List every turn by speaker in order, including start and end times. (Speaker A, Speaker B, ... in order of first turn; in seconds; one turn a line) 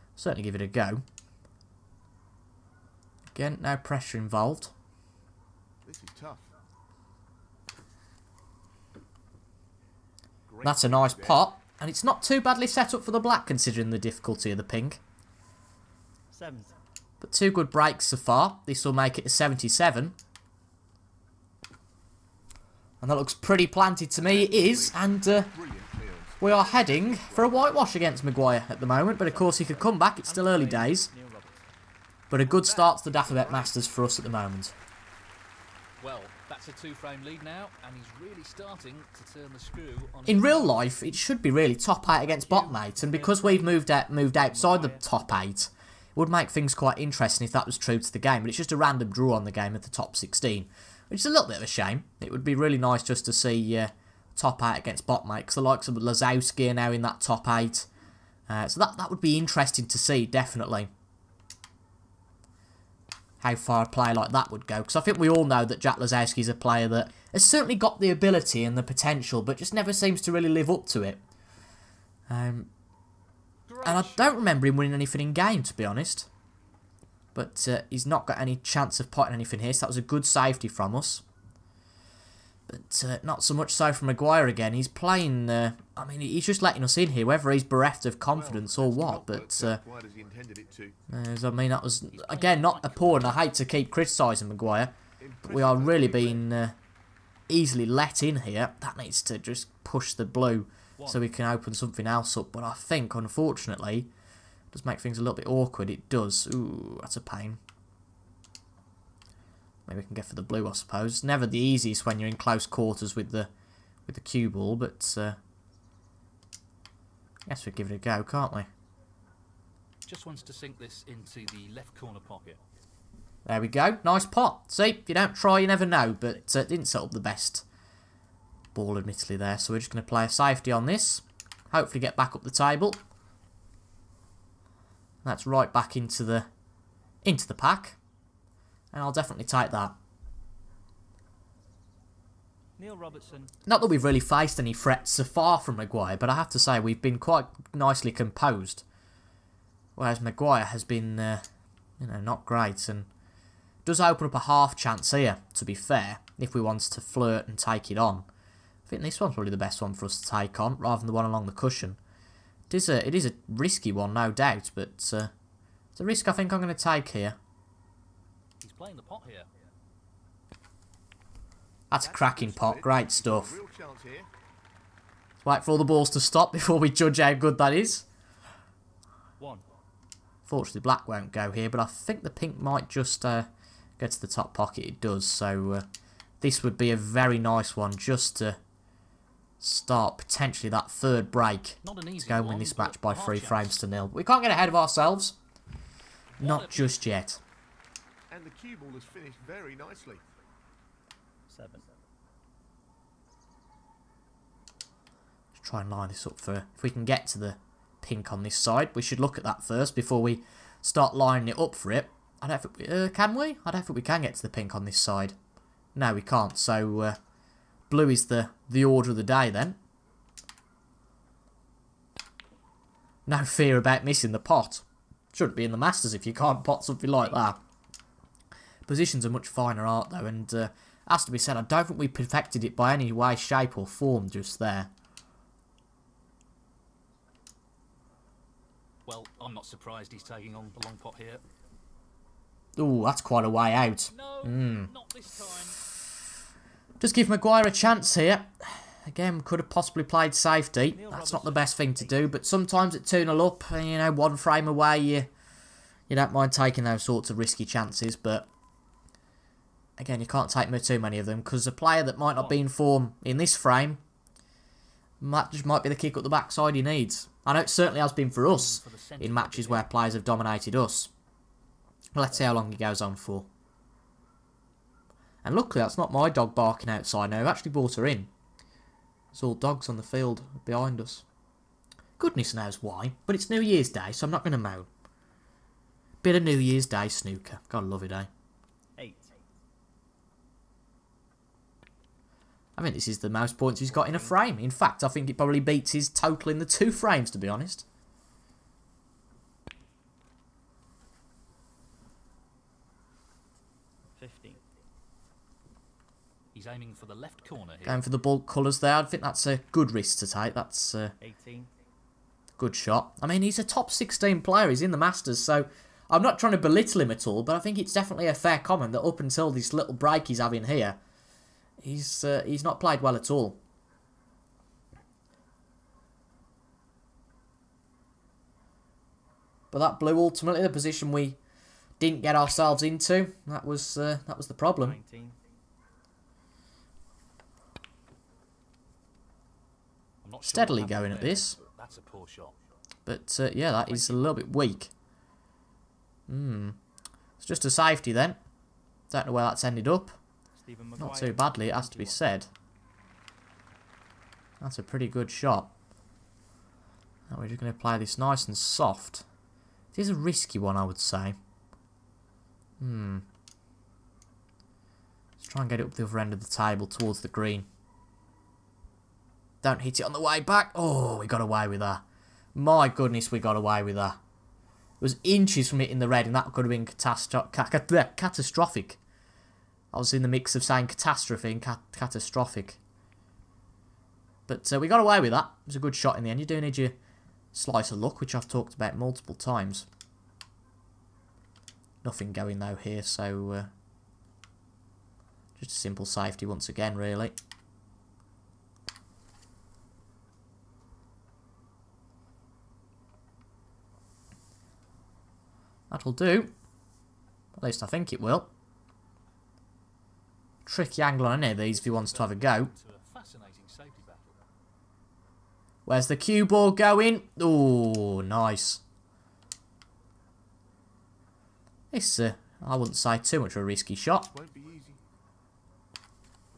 Speaker A: 0.2-1.0
Speaker A: 3.3-4.7
Speaker B: 5.8-6.5
Speaker B: 10.5-11.4
Speaker A: 10.6-15.0
Speaker C: 16.3-16.8
Speaker A: 17.2-20.1
Speaker A: 23.0-25.5
Speaker B: 24.2-27.8
Speaker A: 26.4-31.1
Speaker C: 29.2-31.7
Speaker A: 32.3-34.7
Speaker B: 32.4-33.7
Speaker D: 36.0-40.9
Speaker A: 40.3-57.9
Speaker D: 42.2-42.6
Speaker C: 42.6-43.8
Speaker C: 44.4-45.0
Speaker A: 58.5-60.9
Speaker A: 63.4-71.2
Speaker A: 72.3-72.7
Speaker D: 73.7-74.4
Speaker A: 73.8-76.3
Speaker A: 77.3-81.2
Speaker A: 82.7-89.8
Speaker B: 88.3-91.0
Speaker A: 91.1-96.7
Speaker D: 92.1-93.4
Speaker B: 95.2-96.5
Speaker A: 97.5-104.1
Speaker C: 101.0-101.2
Speaker A: 104.7-107.6
Speaker A: 109.9-113.5
Speaker A: 114.1-115.4
Speaker A: 117.5-118.7
Speaker D: 120.0-122.6
Speaker A: 123.5-127.6
Speaker A: 128.7-133.0
Speaker A: 135.2-136.5
Speaker A: 137.2-138.0
Speaker A: 138.9-139.9
Speaker C: 142.8-143.5
Speaker A: 143.7-148.8
Speaker A: 149.9-151.4
Speaker A: 152.0-153.1
Speaker A: 153.8-158.2
Speaker A: 158.9-162.0
Speaker A: 162.7-165.3
Speaker A: 165.9-167.4
Speaker D: 168.6-169.5
Speaker A: 171.9-173.6
Speaker B: 172.0-174.3
Speaker A: 175.4-178.1
Speaker C: 179.4-179.7
Speaker A: 180.4-185.8
Speaker A: 186.4-188.6
Speaker A: 189.6-195.4
Speaker D: 191.8-193.8
Speaker D: 196.4-197.0
Speaker A: 196.4-197.4
Speaker B: 198.3-200.2
Speaker C: 201.5-201.9
Speaker A: 205.6-215.3
Speaker A: 215.9-217.2
Speaker A: 217.9-219.8
Speaker A: 223.3-227.6
Speaker A: 228.8-234.9
Speaker D: 239.1-241.4
Speaker A: 242.8-244.9
Speaker D: 244.1-245.8
Speaker A: 247.0-255.3
Speaker C: 250.9-252.4
Speaker A: 256.1-258.5
Speaker A: 260.0-264.0
Speaker C: 262.3-262.6
Speaker A: 265.2-271.1
Speaker D: 268.4-269.9
Speaker A: 272.1-273.5
Speaker A: 275.4-278.3
Speaker A: 279.3-281.2
Speaker A: 282.2-284.9
Speaker A: 286.2-288.3
Speaker C: 289.0-289.3
Speaker A: 292.8-297.9
Speaker C: 293.9-294.4
Speaker C: 304.2-304.6
Speaker D: 306.5-308.0
Speaker A: 307.9-311.1
Speaker C: 311.2-311.7
Speaker A: 312.6-321.0
Speaker A: 321.8-323.6
Speaker A: 329.7-331.4
Speaker A: 332.0-335.0
Speaker C: 334.8-335.4
Speaker D: 340.2-342.6
Speaker A: 340.4-341.6
Speaker A: 343.1-344.9
Speaker C: 343.9-344.4
Speaker A: 346.3-346.8
Speaker A: 347.4-348.4
Speaker A: 349.1-350.2
Speaker C: 350.6-352.2
Speaker A: 351.0-352.5
Speaker A: 354.6-355.7
Speaker A: 357.3-359.2
Speaker A: 359.9-361.4
Speaker A: 362.8-363.2
Speaker A: 365.4-367.7
Speaker A: 369.6-372.0
Speaker A: 372.5-374.2
Speaker A: 375.0-379.0
Speaker A: 379.9-382.8
Speaker A: 384.5-386.9
Speaker A: 387.5-389.9
Speaker A: 392.0-393.7
Speaker A: 395.6-397.3
Speaker A: 405.9-406.5
Speaker A: 407.6-408.5
Speaker A: 410.6-412.7
Speaker D: 411.7-414.3
Speaker A: 415.9-418.8
Speaker A: 421.9-424.3
Speaker B: 424.3-425.0